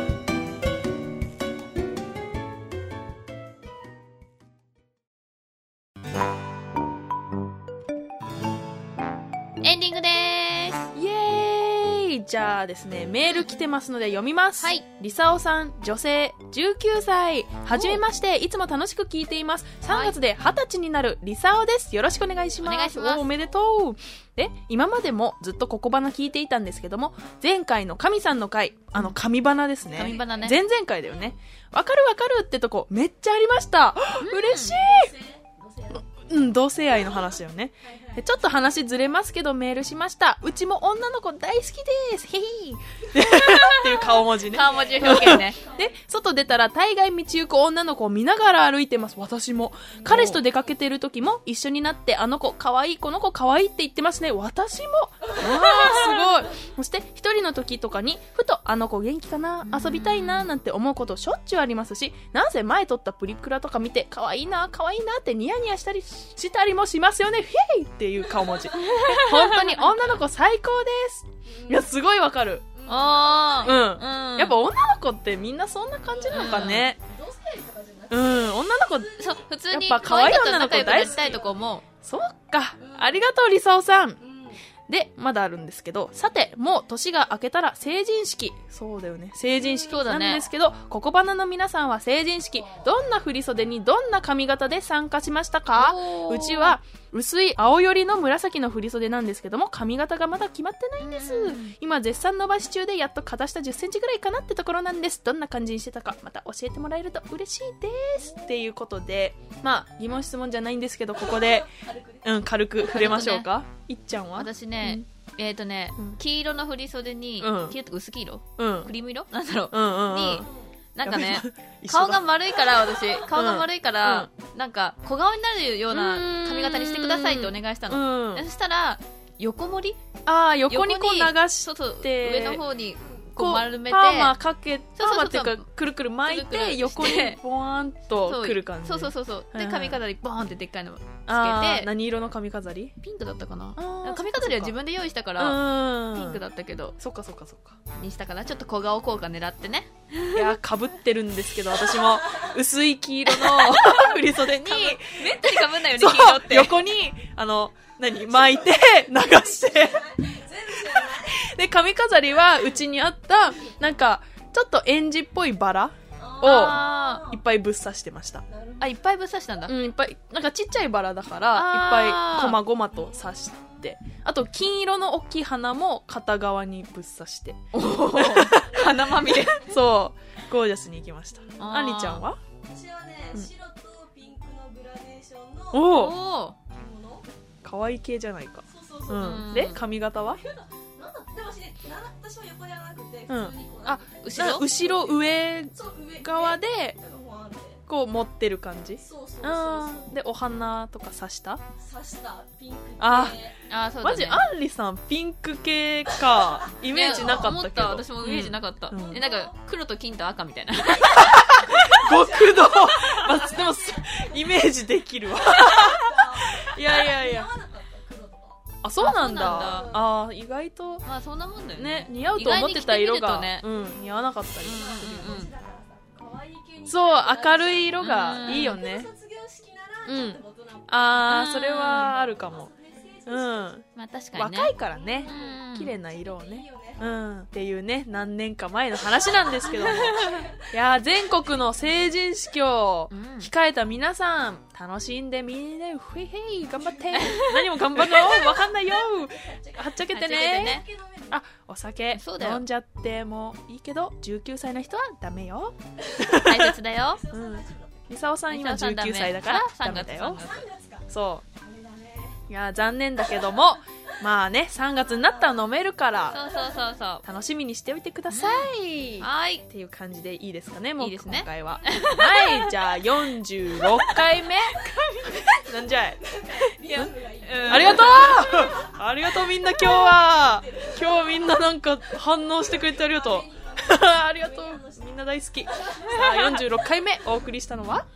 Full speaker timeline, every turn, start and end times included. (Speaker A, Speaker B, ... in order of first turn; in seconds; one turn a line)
Speaker A: 9.6-10.9
Speaker B: 10.9-35.1
Speaker A: 14.6-14.8
Speaker A: 17.7-18.0
Speaker A: 19.9-20.1
Speaker A: 22.6-23.2
Speaker A: 29.9-30.6
Speaker A: 34.2-34.8
Speaker C: 34.7-36.1
Speaker B: 35.9-72.7
Speaker C: 37.8-38.3
Speaker A: 43.3-43.9
Speaker C: 43.9-45.9
Speaker A: 44.5-45.6
Speaker A: 50.0-50.4
Speaker A: 55.7-56.2
Speaker A: 59.6-60.5
Speaker A: 68.8-69.8
Speaker C: 71.6-71.8
Speaker C: 72.7-73.6
Speaker A: 72.9-74.5
Speaker B: 73.6-77.0
Speaker C: 76.2-79.4
Speaker A: 76.3-76.8
Speaker B: 78.1-79.1
Speaker A: 79.2-81.8
Speaker B: 79.7-81.4
Speaker C: 80.4-81.6
Speaker B: 82.0-84.2
Speaker C: 82.8-83.2
Speaker C: 84.2-84.6
Speaker B: 84.9-111.7
Speaker C: 89.5-90.1
Speaker A: 89.9-90.4
Speaker C: 92.5-92.9
Speaker A: 95.7-96.8
Speaker A: 101.0-101.7
Speaker C: 111.2-112.2
Speaker B: 112.2-115.0
Speaker A: 112.8-113.5
Speaker A: 114.3-130.0
Speaker B: 117.4-117.8
Speaker B: 118.6-118.9
Speaker B: 119.7-120.5
Speaker C: 120.4-120.7
Speaker B: 121.0-122.2
Speaker B: 123.3-124.3
Speaker B: 125.9-128.4
Speaker B: 130.2-132.6
Speaker A: 130.7-134.3
Speaker B: 133.4-140.0
Speaker A: 134.9-135.6
Speaker A: 136.2-137.4
Speaker A: 138.2-141.9
Speaker B: 141.3-142.9
Speaker A: 143.0-147.0
Speaker B: 143.8-144.8
Speaker B: 145.4-146.4
Speaker B: 147.0-147.8
Speaker A: 147.9-150.5
Speaker B: 150.3-160.1
Speaker A: 153.5-154.0
Speaker A: 154.7-156.8
Speaker C: 158.6-161.5
Speaker B: 160.7-168.4
Speaker C: 166.2-167.4
Speaker A: 166.4-167.2
Speaker C: 168.5-168.9
Speaker A: 168.8-169.7
Speaker B: 169.7-182.4
Speaker A: 171.5-172.6
Speaker A: 177.7-179.7
Speaker A: 181.6-182.3
Speaker C: 182.6-185.9
Speaker B: 185.7-186.2
Speaker A: 185.8-186.6
Speaker C: 186.7-187.3
Speaker B: 187.6-190.4
Speaker C: 188.7-189.4
Speaker A: 189.2-189.8
Speaker C: 190.2-197.8
Speaker B: 193.3-196.9
Speaker A: 194.2-194.6
Speaker B: 197.9-201.6
Speaker C: 199.0-200.1
Speaker C: 201.8-203.6
Speaker B: 203.0-203.4
Speaker A: 203.7-204.4
Speaker B: 204.0-209.2
Speaker C: 206.2-207.5
Speaker A: 206.9-211.4
Speaker C: 209.0-209.6
Speaker B: 211.1-217.5
Speaker C: 211.7-214.7
Speaker C: 215.5-218.6
Speaker B: 218.8-221.0
Speaker A: 219.0-220.0
Speaker C: 219.2-220.1
Speaker A: 221.0-223.7
Speaker B: 221.8-225.4
Speaker C: 223.7-233.8
Speaker A: 224.6-225.5
Speaker B: 226.9-229.1
Speaker A: 228.0-228.8
Speaker B: 230.1-232.7
Speaker A: 231.3-232.1
Speaker B: 233.3-233.8
Speaker A: 233.9-234.7
Speaker B: 234.3-250.8
Speaker C: 234.8-237.1
Speaker A: 235.2-235.9
Speaker C: 239.0-240.7
Speaker A: 239.8-240.4
Speaker A: 243.1-243.5
Speaker C: 246.8-247.2
Speaker A: 247.2-248.3
Speaker C: 248.1-251.4
Speaker A: 250.1-250.8
Speaker B: 251.3-256.7
Speaker A: 252.1-252.6
Speaker A: 256.4-257.2
Speaker C: 257.1-258.0
Speaker B: 257.3-260.5
Speaker A: 258.5-260.7
Speaker C: 260.3-262.4
Speaker B: 261.1-261.4
Speaker B: 262.5-266.4
Speaker C: 265.1-266.9
Speaker A: 266.3-267.2
Speaker B: 267.2-276.2
Speaker A: 268.3-269.6
Speaker A: 271.0-272.6
Speaker A: 274.8-275.4
Speaker C: 275.4-279.0
Speaker A: 276.9-278.5
Speaker B: 277.7-288.1
Speaker C: 279.8-281.6
Speaker C: 282.4-285.1
Speaker C: 285.7-286.9